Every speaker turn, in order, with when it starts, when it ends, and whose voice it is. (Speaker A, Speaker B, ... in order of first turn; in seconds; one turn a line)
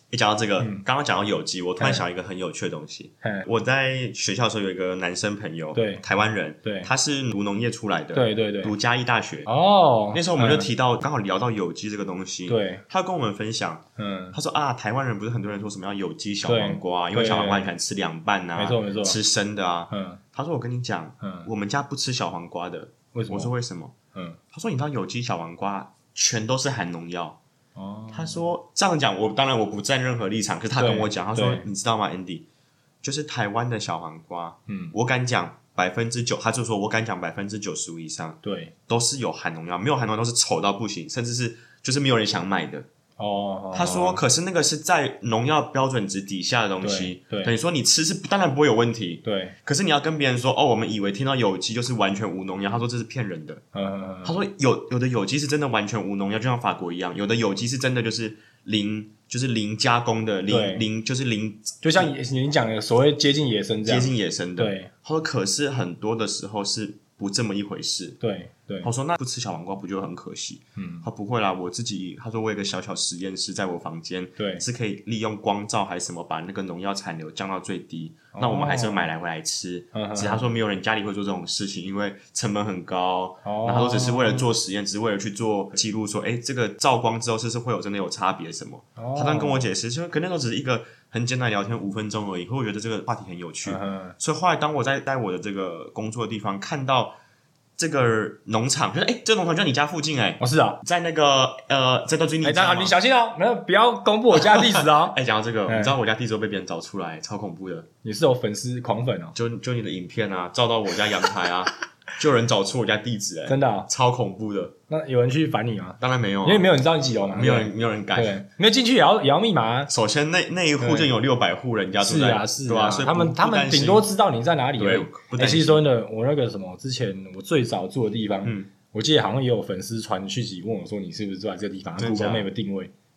Speaker A: 0.1-9.5
Speaker B: 3.2-3.5
Speaker B: 5.7-6.0
Speaker B: 6.6-6.9
Speaker B: 8.1-8.7
Speaker B: 9.4-10.7
Speaker A: 10.1-23.9
Speaker B: 12.5-12.8
Speaker B: 14.0-14.3
Speaker B: 16.4-17.7
Speaker B: 18.6-19.2
Speaker B: 19.9-20.2
Speaker B: 21.2-21.5
Speaker B: 23.1-23.5
Speaker A: 24.5-27.4
Speaker B: 27.8-28.4
Speaker A: 28.1-32.5
Speaker B: 30.8-31.6
Speaker A: 33.0-42.9
Speaker B: 34.7-34.9
Speaker B: 38.4-38.7
Speaker B: 43.2-44.2
Speaker A: 43.7-53.6
Speaker B: 46.8-47.5
Speaker B: 49.2-49.5
Speaker B: 53.7-54.4
Speaker A: 54.2-62.1
Speaker B: 60.5-60.8
Speaker B: 61.8-64.9
Speaker A: 63.8-68.2
Speaker B: 68.2-68.9
Speaker A: 68.8-97.2
Speaker B: 70.8-71.0
Speaker B: 74.4-74.6
Speaker B: 78.3-79.1
Speaker B: 79.9-80.5
Speaker B: 83.4-84.5
Speaker B: 89.0-89.7
Speaker B: 93.7-94.1
Speaker A: 97.8-102.9
Speaker B: 100.4-100.8
Speaker B: 102.4-105.2
Speaker A: 104.3-107.9
Speaker B: 105.7-105.9
Speaker B: 108.0-109.3
Speaker A: 109.3-114.7
Speaker B: 113.5-113.9
Speaker B: 114.9-119.9
Speaker A: 116.0-116.7
Speaker A: 117.3-118.4
Speaker A: 119.9-124.1
Speaker B: 120.8-121.1
Speaker B: 122.0-132.9
Speaker A: 124.8-125.8
Speaker A: 128.4-128.7
Speaker A: 132.0-132.5